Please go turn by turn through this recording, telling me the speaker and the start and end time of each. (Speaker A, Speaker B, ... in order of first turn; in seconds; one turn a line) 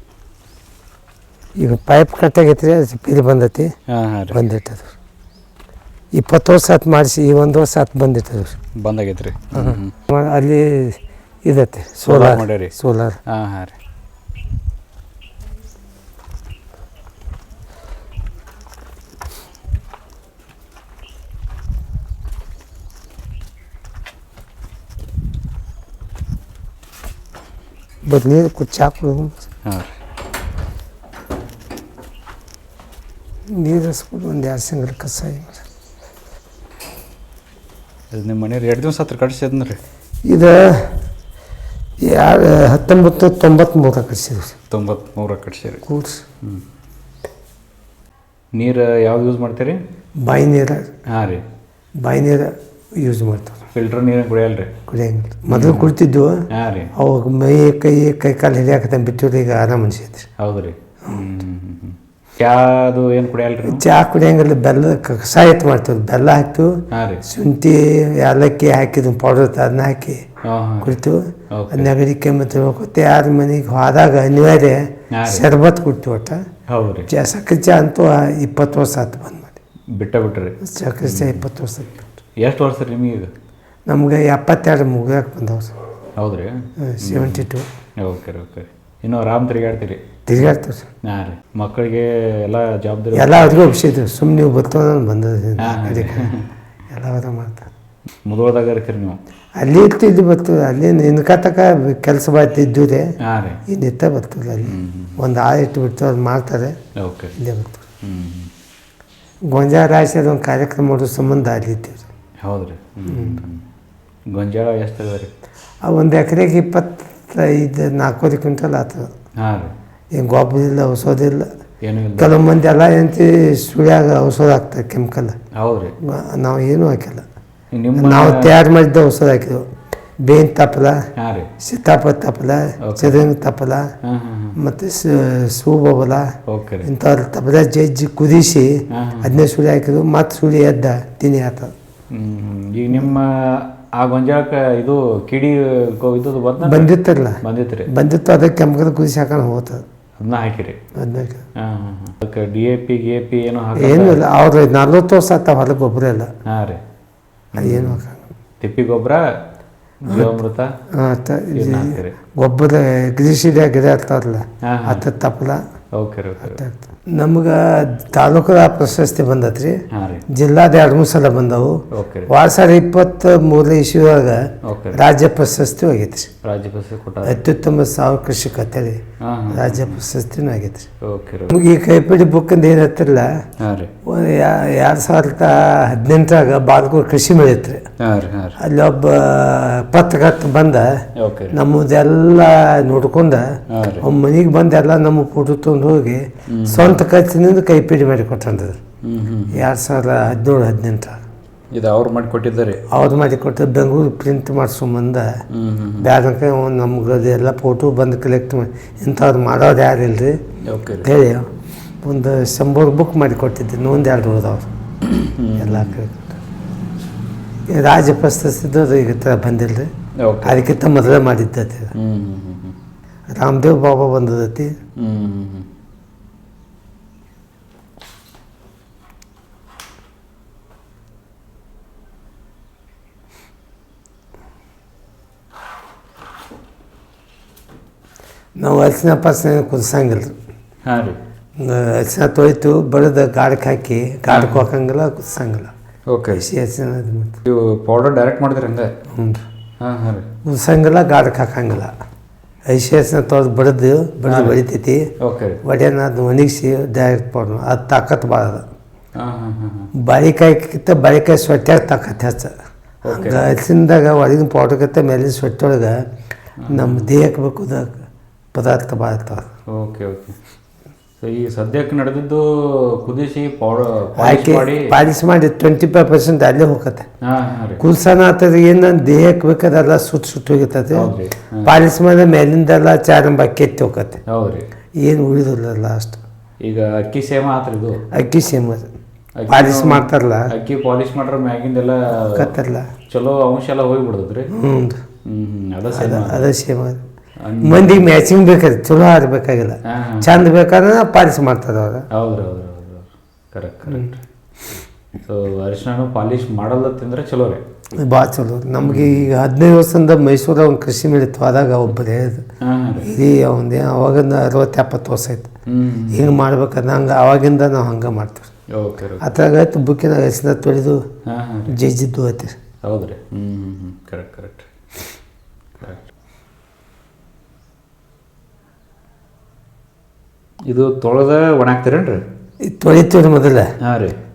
Speaker A: 1.6-3.7
Speaker B: 3.9-4.4
Speaker A: 4.3-4.9
Speaker A: 6.1-8.6
Speaker B: 8.8-9.9
Speaker A: 9.5-13.2
Speaker B: 12.1-12.7
Speaker B: 13.3-13.7
Speaker A: 28.0-29.4
Speaker B: 29.6-29.9
Speaker A: 33.5-35.6
Speaker B: 38.1-39.8
Speaker A: 40.2-40.9
Speaker A: 42.0-44.5
Speaker B: 44.7-45.8
Speaker A: 45.9-46.2
Speaker B: 48.5-49.8
Speaker A: 50.2-50.9
Speaker B: 51.1-51.4
Speaker A: 52.0-53.6
Speaker B: 53.7-54.7
Speaker A: 54.9-56.4
Speaker B: 55.5-55.9
Speaker B: 56.5-56.9
Speaker A: 56.9-60.3
Speaker B: 60.4-63.8
Speaker A: 61.0-61.3
Speaker A: 63.6-70.2
Speaker B: 66.9-67.2
Speaker B: 70.4-71.0
Speaker A: 70.8-76.4
Speaker B: 71.5-71.9
Speaker B: 75.1-75.5
Speaker B: 76.7-77.1
Speaker A: 77.1-79.6
Speaker B: 79.9-81.5
Speaker A: 80.6-82.2
Speaker B: 82.4-83.3
Speaker A: 83.9-85.7
Speaker B: 86.2-87.5
Speaker A: 86.8-87.7
Speaker B: 88.0-90.0
Speaker A: 90.2-90.9
Speaker B: 91.0-93.5
Speaker A: 93.1-96.3
Speaker B: 95.6-96.4
Speaker A: 96.9-97.7
Speaker B: 98.2-99.2
Speaker A: 99.6-103.1
Speaker B: 103.2-103.6
Speaker A: 103.7-106.8
Speaker B: 104.6-105.2
Speaker B: 107.0-107.3
Speaker A: 107.4-107.8
Speaker B: 108.0-108.5
Speaker A: 109.4-112.1
Speaker B: 112.4-113.6
Speaker A: 113.0-113.4
Speaker B: 114.3-115.3
Speaker A: 115.8-119.1
Speaker B: 119.4-119.7
Speaker A: 120.1-121.5
Speaker B: 121.8-122.4
Speaker A: 122.2-125.4
Speaker B: 125.5-125.9
Speaker A: 126.0-127.2
Speaker B: 127.7-128.6
Speaker A: 128.0-129.6
Speaker A: 130.2-131.0
Speaker B: 131.2-131.5
Speaker A: 131.6-133.9
Speaker B: 132.8-133.2
Speaker B: 134.0-134.6
Speaker A: 134.6-136.3
Speaker B: 136.5-136.9
Speaker A: 136.8-141.7
Speaker B: 138.9-139.4
Speaker B: 142.1-146.9
Speaker A: 146.6-149.8
Speaker B: 147.4-147.9
Speaker B: 150.2-150.8
Speaker A: 150.9-151.4
Speaker B: 151.6-154.2
Speaker A: 153.8-156.3
Speaker B: 156.4-156.8
Speaker B: 157.5-158.0
Speaker A: 157.6-158.2
Speaker B: 158.6-159.3
Speaker B: 160.0-160.7
Speaker A: 160.1-160.3
Speaker A: 160.9-165.6
Speaker B: 161.5-162.2
Speaker B: 164.6-165.0
Speaker B: 165.9-166.6
Speaker A: 166.4-176.3
Speaker B: 169.9-170.2
Speaker B: 171.9-172.3
Speaker B: 174.6-175.0
Speaker B: 176.4-177.4
Speaker A: 177.2-180.9
Speaker B: 179.2-180.0
Speaker B: 181.0-181.6
Speaker A: 181.5-183.3
Speaker B: 183.6-183.9
Speaker A: 184.0-187.8
Speaker B: 188.0-188.6
Speaker A: 188.6-198.8
Speaker B: 191.2-191.6
Speaker B: 193.7-194.1
Speaker B: 196.5-197.0
Speaker B: 199.0-199.7
Speaker A: 199.5-201.2
Speaker B: 201.7-202.8
Speaker A: 202.9-205.3
Speaker B: 205.5-206.1
Speaker A: 206.0-210.4
Speaker B: 210.7-211.1
Speaker A: 211.0-211.5
Speaker A: 212.0-214.7
Speaker B: 215.0-216.0
Speaker A: 215.6-216.4
Speaker A: 217.7-219.9
Speaker B: 220.2-220.6
Speaker A: 220.4-221.9
Speaker B: 221.9-222.8
Speaker A: 223.3-224.8
Speaker B: 225.0-225.7
Speaker A: 238.6-240.3
Speaker B: 240.8-241.2
Speaker A: 241.6-245.7
Speaker B: 244.3-244.6
Speaker B: 246.1-246.4
Speaker A: 246.3-247.4
Speaker B: 247.4-248.9
Speaker A: 249.1-249.4
Speaker B: 249.8-250.3
Speaker A: 250.4-251.9
Speaker A: 252.7-255.1
Speaker B: 254.3-254.6
Speaker B: 255.2-255.6
Speaker A: 255.6-258.6
Speaker B: 259.1-259.9
Speaker A: 260.0-262.5
Speaker B: 263.0-263.4
Speaker A: 263.1-266.0
Speaker B: 266.6-267.1
Speaker A: 266.7-268.0
Speaker A: 268.5-269.5
Speaker B: 269.7-270.4
Speaker B: 271.2-274.9
Speaker A: 274.2-277.1
Speaker B: 277.2-277.8
Speaker A: 277.8-281.1
Speaker B: 280.9-281.8
Speaker A: 281.6-284.2
Speaker B: 284.3-284.6
Speaker A: 284.9-286.2
Speaker B: 286.6-288.0
Speaker A: 288.1-288.9
Speaker B: 289.4-292.5
Speaker A: 289.5-290.5
Speaker A: 292.1-292.9
Speaker B: 293.1-294.5
Speaker A: 294.5-295.0
Speaker B: 295.2-296.4
Speaker A: 295.9-297.0
Speaker B: 297.4-298.1
Speaker A: 297.6-302.1
Speaker B: 299.9-300.3
Speaker B: 302.1-304.2
Speaker B: 305.2-307.6
Speaker A: 308.0-312.4
Speaker B: 308.8-309.3
Speaker B: 312.6-313.1
Speaker A: 313.0-315.5
Speaker B: 315.7-316.3
Speaker A: 316.1-318.5
Speaker B: 318.7-319.2
Speaker A: 319.2-321.1
Speaker B: 321.2-321.8
Speaker A: 321.7-322.6
Speaker B: 322.8-324.7
Speaker B: 325.8-326.1
Speaker B: 330.7-332.2
Speaker A: 332.6-333.7
Speaker B: 333.8-334.1